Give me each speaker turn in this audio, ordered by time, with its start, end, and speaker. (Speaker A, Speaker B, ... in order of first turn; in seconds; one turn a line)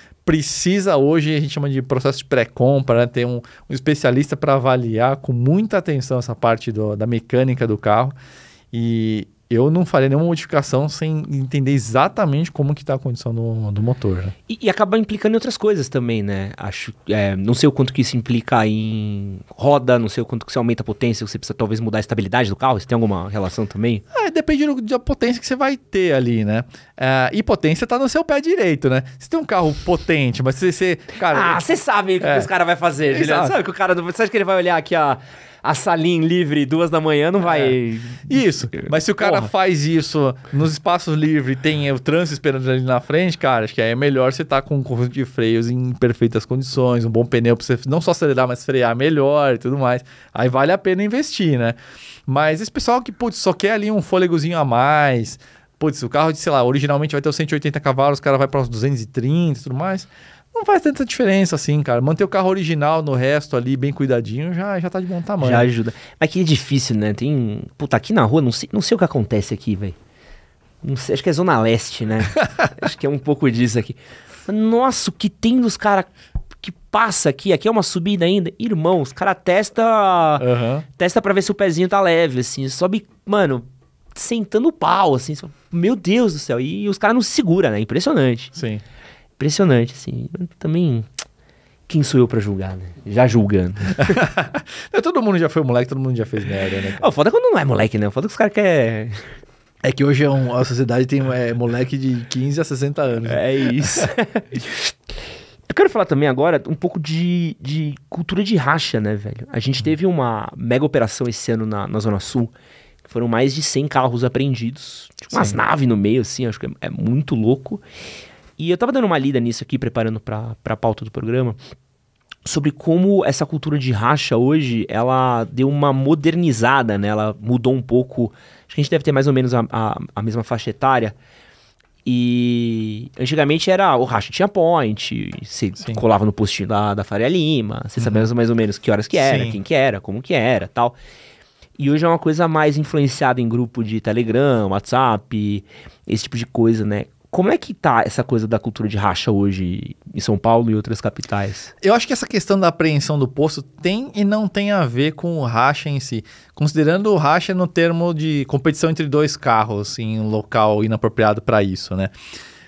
Speaker A: 0.2-8.1
Speaker A: 8.7-14.3
Speaker B: 14.5-24.0
Speaker A: 24.1-31.6
Speaker B: 31.3-39.5
Speaker A: 32.2-32.5
Speaker A: 33.1-33.6
Speaker A: 37.4-37.7
Speaker A: 38.2-65.7
Speaker B: 65.4-70.0
Speaker B: 70.8-76.1
Speaker B: 76.6-88.5
Speaker A: 80.4-80.8
Speaker A: 88.5-88.8
Speaker B: 89.4-91.1
Speaker B: 91.9-94.2
Speaker A: 94.0-97.0
Speaker B: 97.0-99.3
Speaker A: 99.8-104.1
Speaker B: 103.2-104.9
Speaker B: 105.7-112.5
Speaker B: 113.0-117.8
Speaker A: 115.3-115.6
Speaker B: 118.6-121.6
Speaker B: 122.5-131.2
Speaker B: 132.0-140.9
Speaker A: 138.0-138.2
Speaker A: 139.1-139.6
Speaker B: 141.8-151.7
Speaker A: 151.8-162.1